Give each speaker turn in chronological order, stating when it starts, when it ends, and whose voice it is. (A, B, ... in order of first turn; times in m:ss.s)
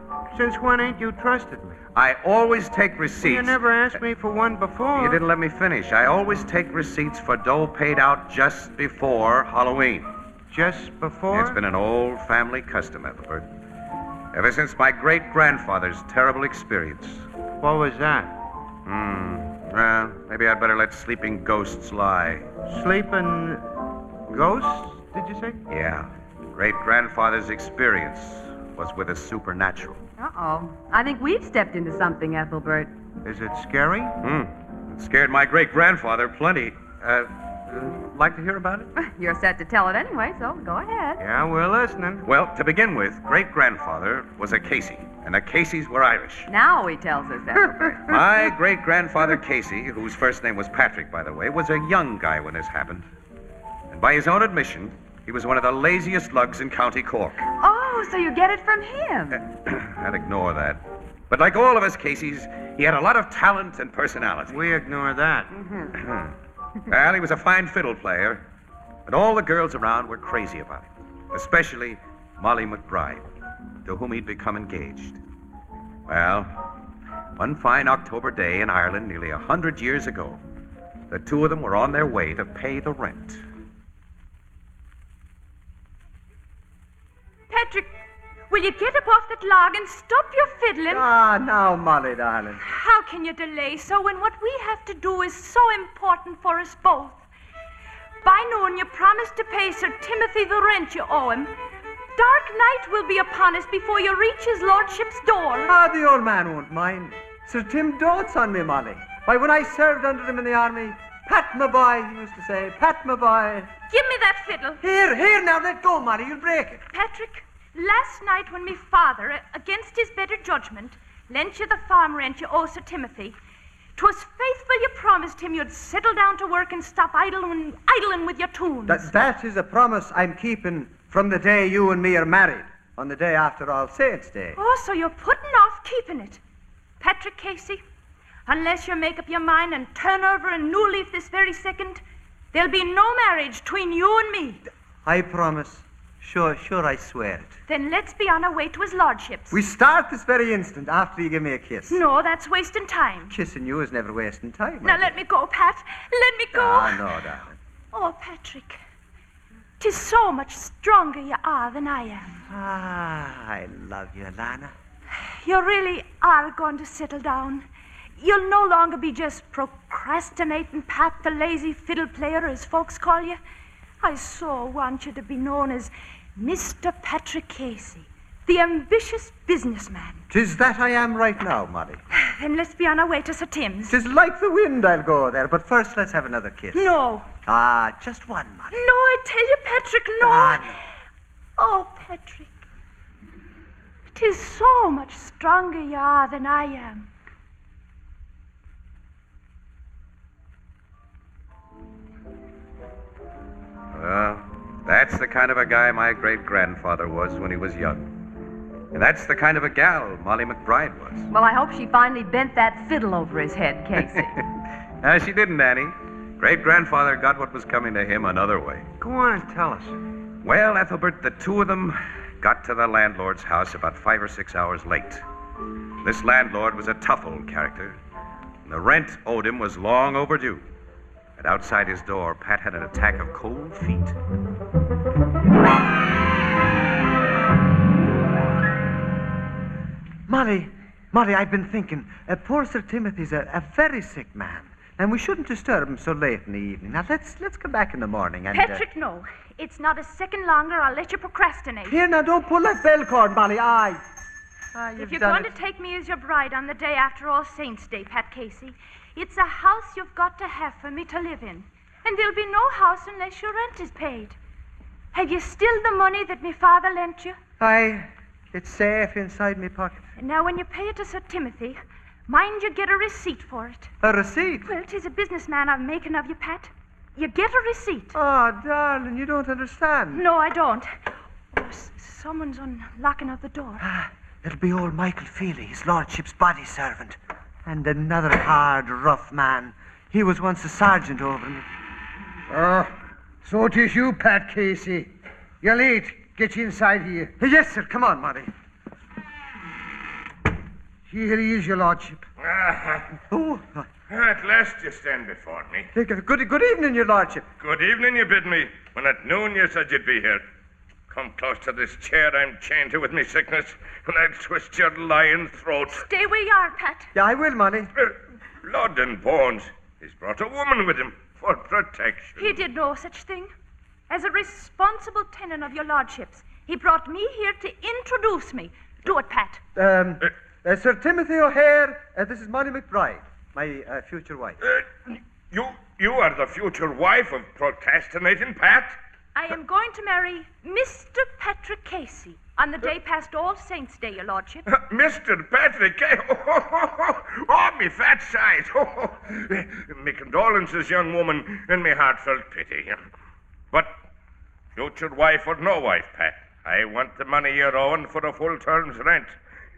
0:00.3-0:01.8 A
0:02.0-0:03.6 B
0:03.2-0:05.2 A
0:04.9-0:10.1 B
0:10.5-0:11.6 A
0:11.3-0:13.5 B
0:14.3-0:17.3 B
0:17.6-0:18.3 A
0:18.9-0:22.6 B
0:22.7-0:23.7 A
0:24.3-0:25.6 A
0:25.7-0:30.0 B
0:30.2-0:30.8 A
0:30.8-0:32.9 C
0:33.2-0:34.2 A
0:34.2-0:38.9 B
0:39.0-0:41.2 C
0:41.2-0:42.3 A
0:42.2-0:46.5 B
0:46.5-0:48.0 C
0:47.6-0:48.3 A
0:48.1-0:53.1 B
0:53.9-0:57.5 B
0:57.6-0:59.4 C
0:59.4-1:04.6 B
1:04.5-1:05.9 A
1:05.9-1:06.4 B
1:06.9-1:08.4 B
1:09.1-1:13.3 B
1:13.8-1:15.2 B
1:16.1-1:16.5 B
1:17.4-1:20.4 B
1:21.1-1:23.4 B
1:27.5-1:28.0 D
1:28.5-1:31.1 D
1:30.9-1:32.6 E
1:32.6-1:37.3 D
1:38.2-1:41.5 D
1:42.2-1:45.7 D
1:45.6-1:53.7 E
1:53.9-1:54.8 D
1:54.8-1:56.8 E
1:56.9-2:03.4 D
2:04.0-2:09.2 D
2:08.9-2:14.6 E
2:14.6-2:16.4 D
2:17.0-2:17.8 D
2:18.5-2:24.6 D
2:25.0-2:27.6 E
2:27.7-2:29.6 D
2:29.5-2:32.0 E
2:31.9-2:33.4 D
2:33.3-2:35.1 E
2:34.8-2:37.0 D
2:36.5-2:37.6 E
2:37.9-2:38.8 D
2:39.8-2:42.3 D
2:42.4-2:44.7 E
2:45.1-2:47.7 D
2:48.2-2:53.4 D
2:54.0-3:00.2 D
3:00.3-3:02.0 E
3:02.1-3:04.0 D
3:03.9-3:08.8 E
3:06.7-3:07.3 D
3:08.7-3:10.8 D
3:10.2-3:10.8 E
3:11.6-3:12.5 D
3:14.1-3:17.1 D
3:23.9-3:28.1 B
3:28.9-3:31.3 B
3:31.3-3:34.4 C
3:34.0-3:34.5 B
3:35.0-3:38.9 B
3:39.0-3:40.0 A
3:40.4-3:45.2 B
3:46.0-3:48.0 B
3:48.7-3:50.6 B
3:51.4-3:54.2 B
4:00.3-4:08.8 E
4:08.5-4:12.0 D
4:11.8-4:14.0 E
4:14.7-4:15.6 E
4:15.0-4:24.4 D
4:25.1-4:27.4 D
4:27.6-4:30.1 E
4:30.2-4:33.9 D
4:34.0-4:34.7 E
4:34.6-4:38.2 D
4:38.1-4:40.2 E
4:40.1-4:43.8 D
4:43.8-4:51.7 E
4:52.5-4:52.9 F
4:53.4-4:57.3 F
4:57.4-4:58.5 E
5:01.1-5:02.2 F
5:02.4-5:03.1 G
5:03.3-5:03.9 E
5:04.1-5:05.9 G
5:05.9-5:07.5 E
5:07.6-5:10.4 G
5:11.1-5:16.1 G
5:15.9-5:17.1 D
5:17.2-5:17.9 E
5:18.0-5:22.4 G
5:22.4-5:23.5 D
5:24.1-5:29.6 D
5:29.8-5:34.6 E
5:35.5-5:39.0 G
5:39.4-5:44.6 D
5:44.7-5:53.0 G
5:54.8-5:59.4 G